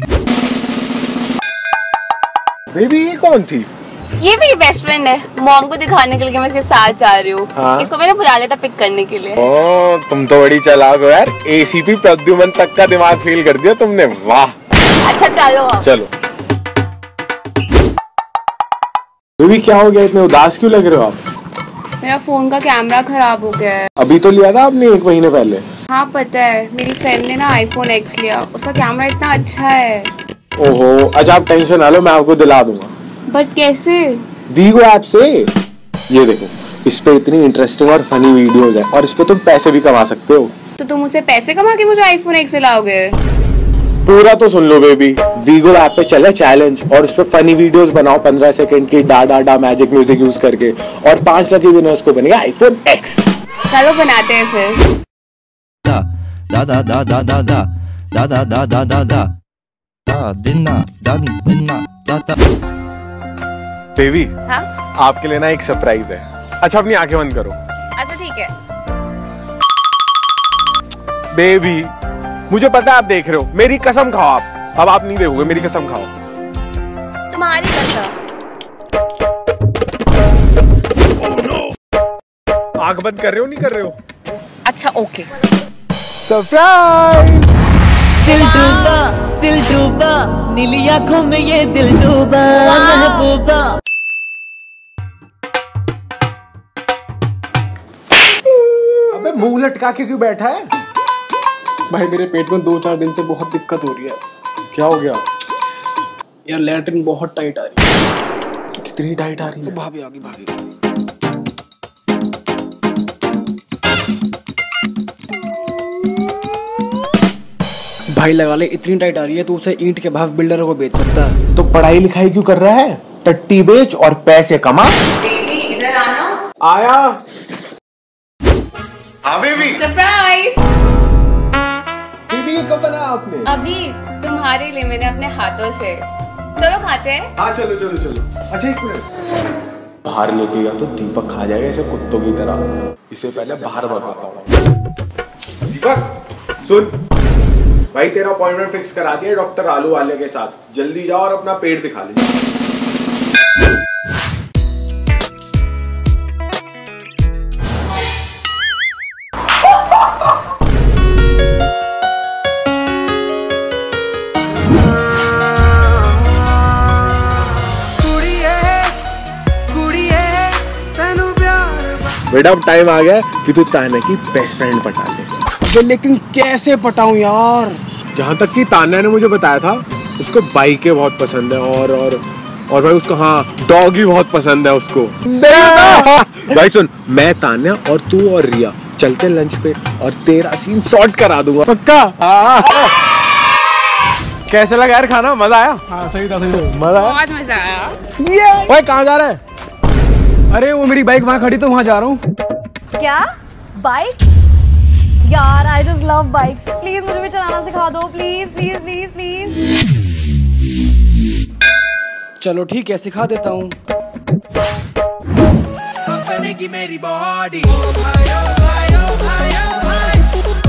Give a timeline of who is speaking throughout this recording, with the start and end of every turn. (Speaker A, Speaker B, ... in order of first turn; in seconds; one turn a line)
Speaker A: 2.7-3.7
Speaker B: 4.2-9.4
Speaker A: 7.6-7.9
Speaker A: 9.4-14.5
Speaker B: 15.1-15.9
Speaker A: 15.8-16.1
Speaker A: 19.4-21.2
Speaker B: 22.0-23.9
Speaker A: 24.0-25.6
Speaker B: 25.9-30.1
Speaker A: 30.6-32.9
Speaker B: 33.3-34.0
Speaker A: 34.5-35.5
Speaker A: 36.1-40.5
Speaker B: 40.8-43.2
Speaker A: 44.1-53.3
Speaker B: 53.7-54.8
Speaker C: 55.9-59.3
Speaker C: 60.1-62.4
Speaker A: 64.0-64.3
Speaker A: 65.0-67.6
Speaker B: 68.0-68.5
Speaker A: 71.3-71.9
Speaker A: 72.5-76.1
Speaker B: 77.3-78.1
Speaker A: 82.8-84.0
Speaker B: 84.7-85.3
Speaker A: 86.2-87.5
Speaker D: 88.2-93.6
Speaker B: 88.3-89.0
Speaker B: 92.6-93.3
Speaker A: 99.1-100.7
Speaker E: 101.9-104.2
Speaker A: 104.7-105.2
Speaker E: 106.5-107.9
Speaker A: 108.8-109.7
Speaker E: 109.7-110.5
Speaker E: 118.1-121.4
Speaker A: 121.5-125.0
Speaker B: 125.2-126.3
Speaker A: 126.6-127.2
Speaker A: 129.3-129.8
Speaker B: 129.8-130.6
Speaker A: 132.3-133.5
Speaker B: 133.6-136.0
Speaker B: 136.6-137.2
Speaker A: 137.4-139.1
Speaker A: 140.1-144.5
Speaker A: 145.7-146.1
Speaker A: 146.6-146.9
Speaker A: 147.9-152.3
Speaker E: 168.0-168.9
Speaker E: 169.7-172.1
Speaker A: 172.3-175.3
Speaker E: 175.6-177.8
Speaker A: 178.1-192.9
Speaker E: 185.3-186.1
Speaker A: 194.5-195.8
Speaker E: 195.9-196.8
Speaker A: 196.6-197.2
Speaker B: 197.1-197.9
Speaker A: 198.2-199.4
Speaker E: 200.5-202.2
Speaker F: 203.0-203.3
Speaker F: 203.8-204.2
Speaker F: 205.3-209.6
Speaker E: 212.4-213.8
Speaker E: 216.3-218.0
Speaker E: 219.4-219.8